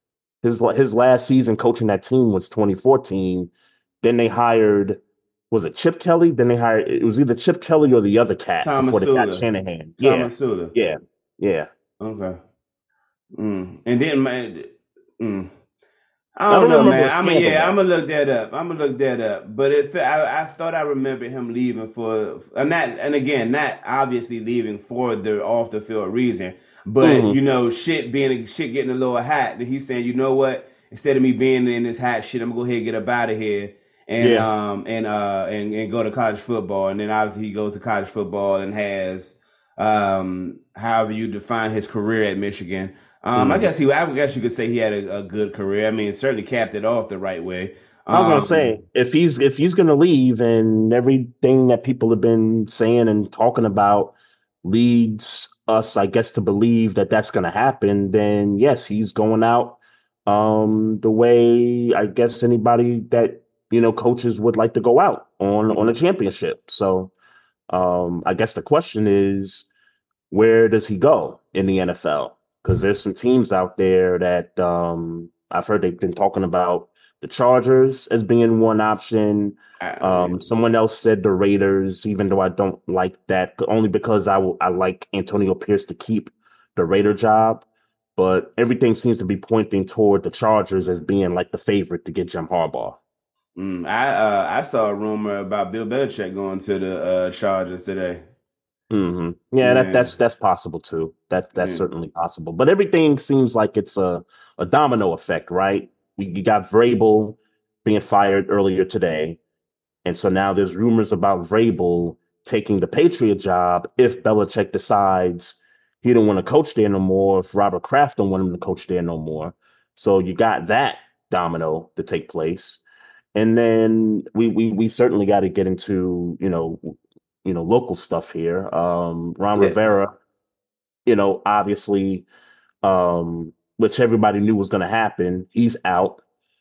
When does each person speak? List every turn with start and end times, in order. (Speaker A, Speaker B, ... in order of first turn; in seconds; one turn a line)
Speaker A: 0.4-11.7
Speaker B: 8.6-9.4
Speaker B: 10.0-10.7
Speaker B: 12.0-12.4
Speaker B: 13.3-15.5
Speaker B: 16.4-48.7
Speaker A: 16.5-17.8
Speaker A: 27.0-27.4
Speaker A: 34.2-34.5
Speaker A: 43.4-43.7
Speaker A: 48.1-67.1
Speaker A: 67.7-69.7
Speaker A: 70.3-93.0
Speaker B: 79.8-80.4
Speaker B: 93.5-98.2
Speaker A: 98.9-109.4
Speaker B: 99.6-100.1
Speaker B: 101.6-101.8
Speaker A: 110.0-122.8
Speaker A: 123.3-130.2
Speaker A: 131.1-132.2
Speaker A: 132.8-136.2